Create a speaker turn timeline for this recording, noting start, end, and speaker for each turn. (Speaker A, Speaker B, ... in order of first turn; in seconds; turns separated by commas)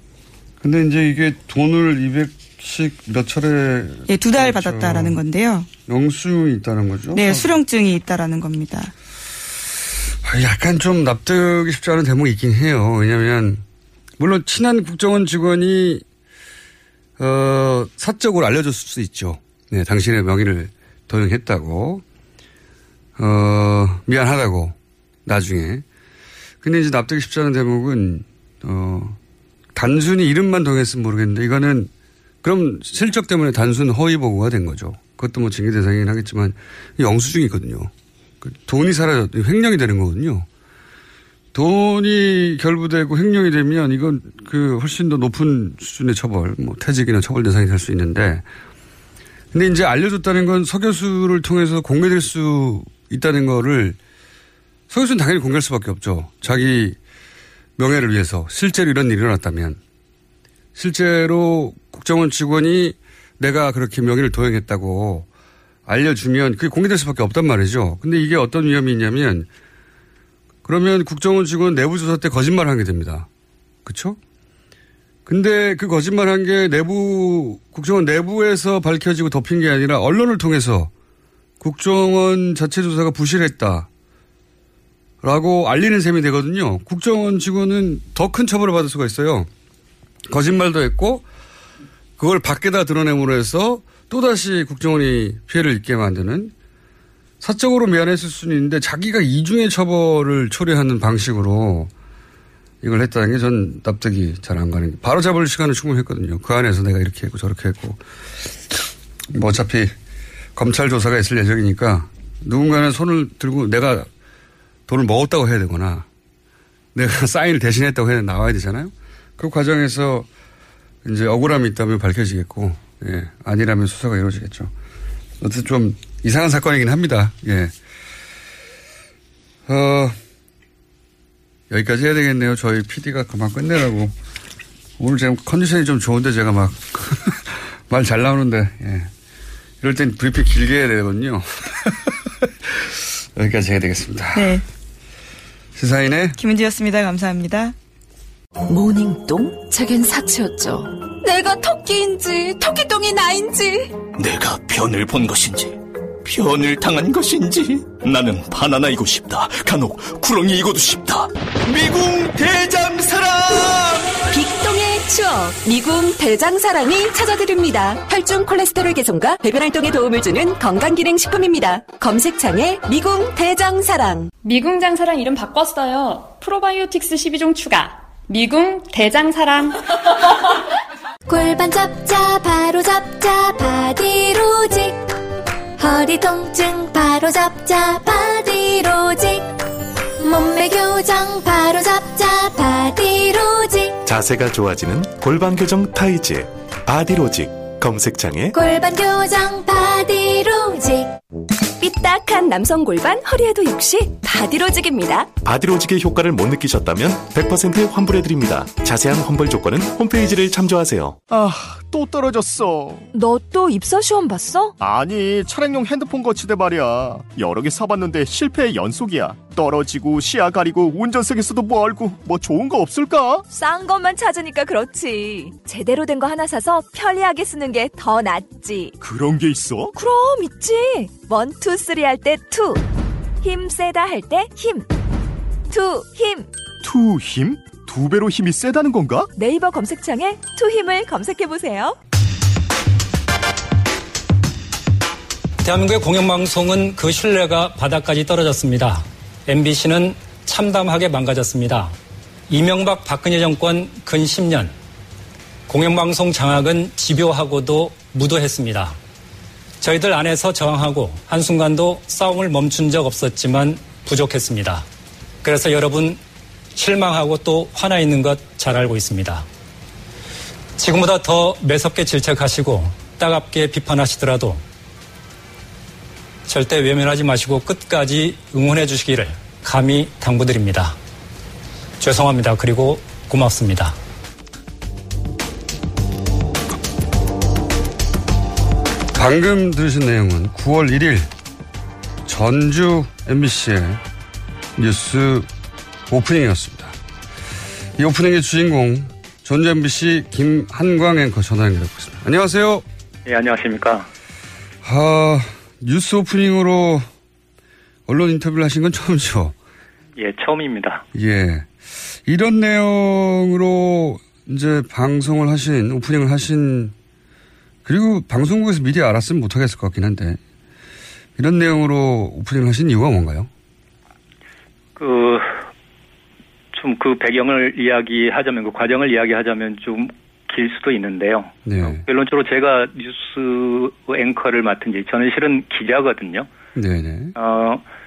Speaker A: 0.6-5.2, Speaker B: 4.1-5.7, Speaker A: 5.9-7.5, Speaker B: 7.1-8.9, Speaker A: 10.2-13.6, Speaker A: 14.2-16.0, Speaker A: 17.2-22.0, Speaker A: 23.2-25.9, Speaker A: 26.6-29.2, Speaker A: 29.8-31.9, Speaker A: 32.4-37.9, Speaker A: 38.4-40.5, Speaker A: 41.5-48.5, Speaker A: 49.5-54.0, Speaker A: 54.9-57.0, Speaker A: 57.8-59.8, Speaker A: 60.8-65.3, Speaker A: 65.9-69.5, Speaker A: 70.7-73.3, Speaker A: 73.8-74.2, Speaker A: 75.3-80.9, Speaker A: 81.6-83.9, Speaker A: 85.2-89.5, Speaker A: 90.3-91.3, Speaker A: 92.2-96.5, Speaker A: 97.4-101.9, Speaker A: 102.8-109.9, Speaker A: 110.6-114.1, Speaker A: 114.9-116.1, Speaker A: 116.9-120.3, Speaker A: 121.0-124.7, Speaker A: 125.4-127.7, Speaker A: 129.7-130.2, Speaker A: 131.7-134.1, Speaker A: 135.0-139.1, Speaker A: 139.8-144.5, Speaker B: 144.3-144.6, Speaker A: 145.8-146.4, Speaker B: 146.4-147.8, Speaker C: 148.7-150.0, Speaker C: 151.7-153.7, Speaker D: 154.1-164.0, Speaker E: 164.3-174.3, Speaker F: 174.4-179.8, Speaker G: 181.3-185.1, Speaker G: 185.8-189.5, Speaker G: 190.2-194.0, Speaker H: 194.0-198.6, Speaker G: 198.5-201.1, Speaker C: 201.8-205.3, Speaker H: 205.4-211.2, Speaker I: 211.3-213.1, Speaker C: 213.1-214.7, Speaker I: 214.8-223.4, Speaker C: 223.5-228.9, Speaker I: 229.0-229.9, Speaker C: 229.9-232.8, Speaker C: 233.4-234.9, Speaker C: 235.7-236.5, Speaker I: 236.8-239.3, Speaker C: 239.3-242.0, Speaker J: 245.6-251.9, Speaker J: 252.5-254.7, Speaker J: 255.7-259.0, Speaker J: 259.8-264.9, Speaker J: 265.4-266.2, Speaker J: 266.8-269.5, Speaker J: 270.8-274.6, Speaker J: 276.5-281.0, Speaker J: 282.0-284.0, Speaker A: 289.1-291.3, Speaker A: 292.2-294.0, Speaker A: 294.8-295.5, Speaker A: 296.1-296.9, Speaker A: 298.0-302.9, Speaker K: 303.3-304.1, Speaker A: 304.8-307.1, Speaker A: 308.1-309.6, Speaker K: 310.2-311.1, Speaker A: 311.1-311.7, Speaker A: 312.3-316.9, Speaker A: 317.9-320.4, Speaker A: 321.4-323.5, Speaker K: 325.0-325.6, Speaker K: 326.7-336.5, Speaker A: 331.7-332.0, Speaker A: 336.8-337.4, Speaker K: 337.4-337.8